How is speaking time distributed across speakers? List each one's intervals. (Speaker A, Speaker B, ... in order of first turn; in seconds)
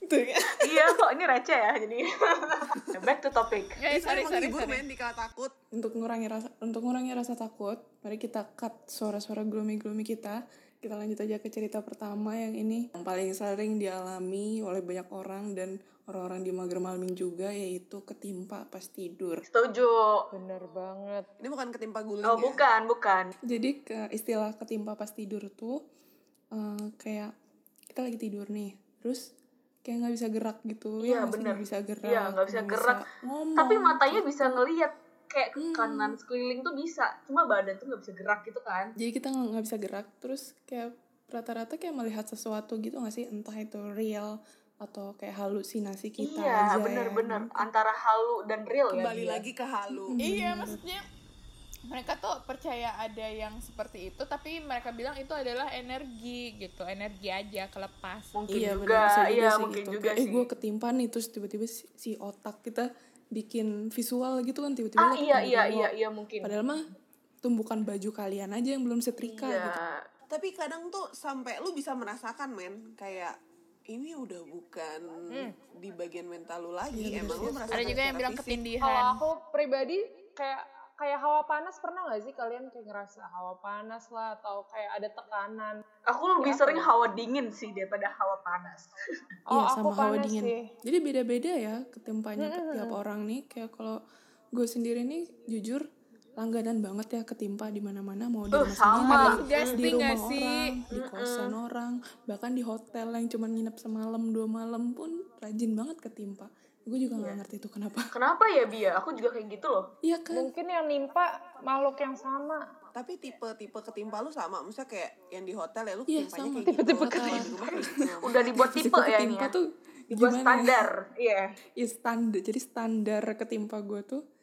Speaker A: 0.1-0.9, 3.9-5.5, 21.4-22.6, 48.9-50.2, 70.3-73.3, 73.9-78.6, 113.0-118.6
Speaker B: 0.6-3.8, 19.5-20.2, 22.2-23.3, 31.0-33.0, 33.6-38.9, 46.2-49.5, 58.3-60.5, 65.0-66.9, 69.2-70.0, 86.1-88.9, 98.5-99.8, 100.9-101.5, 108.1-109.9, 118.2-119.5, 120.1-121.4
Speaker C: 3.8-4.8, 50.2-51.0, 51.9-58.3, 77.7-79.2, 99.0-100.7
Speaker D: 5.7-19.4, 23.5-25.8, 26.6-27.3, 27.9-29.2, 29.8-34.6, 35.6-36.2, 39.0-44.3, 44.8-47.5, 49.9-50.8, 58.5-65.9, 66.4-66.8, 67.4-69.7, 76.9-77.8, 89.5-94.0, 94.5-95.8, 96.4-108.1, 110.0-110.5, 116.1-117.9, 118.5-120.9, 121.8-124.2
Speaker E: 20.3-21.3, 78.8-85.8, 86.4-86.9, 89.5-90.6, 92.4-93.0, 110.3-112.6, 116.7-117.4